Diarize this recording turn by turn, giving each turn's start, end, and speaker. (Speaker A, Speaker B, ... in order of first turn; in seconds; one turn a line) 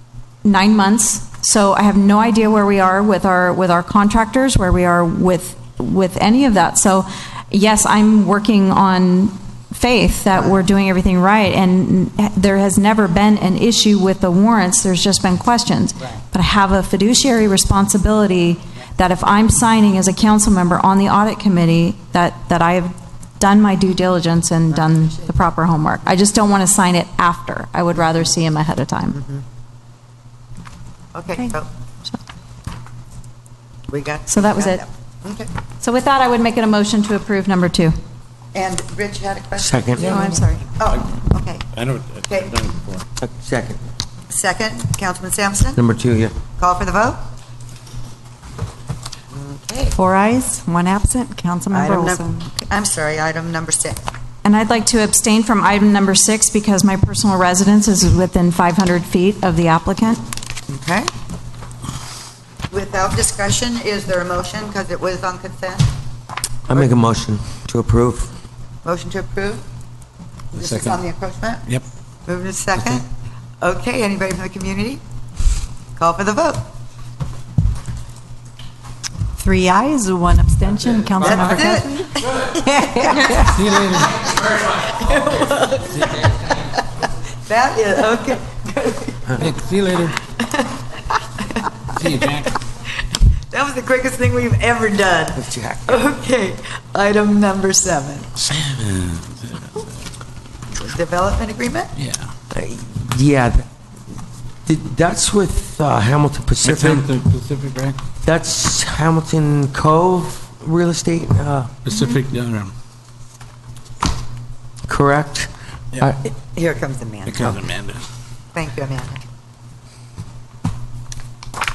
Speaker A: 0.4-29.2
Speaker B: 31.1-31.7
Speaker B: 33.9-35.5
Speaker A: 34.3-34.8
Speaker A: 35.8-38.0
Speaker B: 38.5-41.7
Speaker C: 39.6-40.1
Speaker D: 41.7-43.1
Speaker B: 42.3-42.5
Speaker C: 43.2-43.8
Speaker B: 44.3-45.8
Speaker C: 45.8-46.4
Speaker B: 46.6-47.2
Speaker B: 49.3-50.0
Speaker E: 50.0-52.5
Speaker B: 51.7-54.0
Speaker A: 54.4-60.2
Speaker B: 60.7-61.1
Speaker B: 62.7-65.9
Speaker C: 66.7-68.3
Speaker B: 68.8-69.6
Speaker B: 70.5-71.7
Speaker D: 70.5-71.0
Speaker B: 72.3-73.0
Speaker B: 73.6-75.0
Speaker B: 76.0-76.7
Speaker E: 79.4-83.6
Speaker B: 81.2-82.4
Speaker B: 83.0-83.4
Speaker D: 83.5-84.1
Speaker B: 84.1-86.8
Speaker B: 87.5-89.4
Speaker D: 89.4-90.2
Speaker B: 90.4-90.7
Speaker B: 91.4-92.4
Speaker D: 91.9-92.5
Speaker B: 93.5-98.3
Speaker C: 95.4-96.0
Speaker D: 98.4-99.7
Speaker B: 100.8-101.9
Speaker D: 102.0-102.3
Speaker C: 102.5-103.7
Speaker C: 104.7-107.1
Speaker D: 106.7-108.0
Speaker C: 108.2-111.9
Speaker D: 111.9-112.7
Speaker C: 114.9-116.2
Speaker B: 116.2-117.6
Speaker D: 117.3-118.0
Speaker B: 118.5-119.2